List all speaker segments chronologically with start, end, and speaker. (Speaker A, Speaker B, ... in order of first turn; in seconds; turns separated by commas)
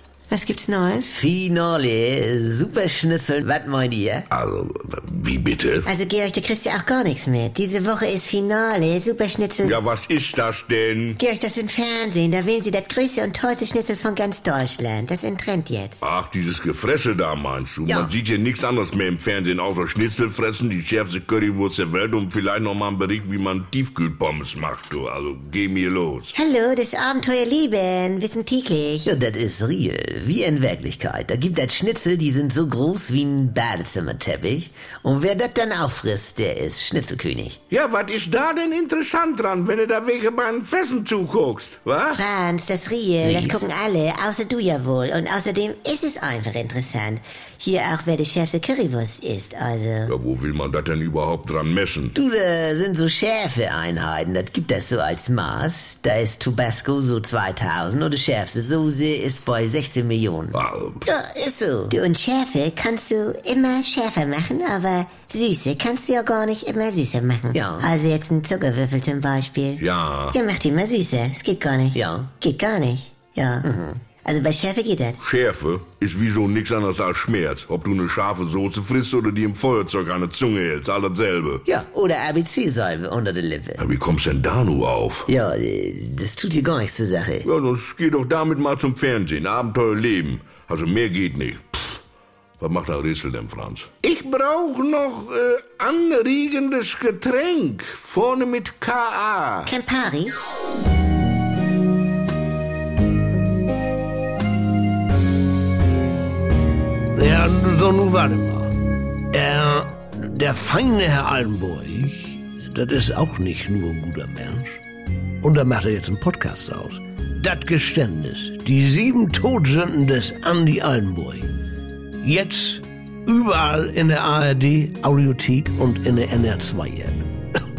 Speaker A: 0.3-1.2, Speaker B: 1.1-4.3, Speaker C: 4.3-5.9, Speaker A: 5.8-9.8, Speaker C: 9.6-11.2, Speaker A: 11.2-16.0, Speaker C: 16.0-26.3, Speaker A: 26.3-29.1, Speaker B: 29.0-37.6, Speaker C: 37.7-42.2, Speaker A: 42.1-50.1, Speaker B: 43.2-43.6, Speaker C: 50.0-52.1, Speaker B: 52.1-61.9, Speaker C: 60.5-61.0, Speaker A: 61.9-73.7, Speaker B: 67.5-67.9, Speaker C: 69.8-70.3, Speaker B: 71.9-72.3, Speaker B: 73.6-74.0, Speaker A: 74.2-75.2, Speaker C: 75.2-81.6, Speaker B: 81.7-83.8, Speaker C: 83.8-85.3, Speaker B: 85.3-87.5, Speaker C: 87.4-92.0, Speaker C: 92.6-99.7, Speaker A: 99.6-100.3, Speaker D: 107.1-108.7, Speaker D: 109.3-114.8, Speaker D: 115.4-121.5, Speaker D: 122.2-127.2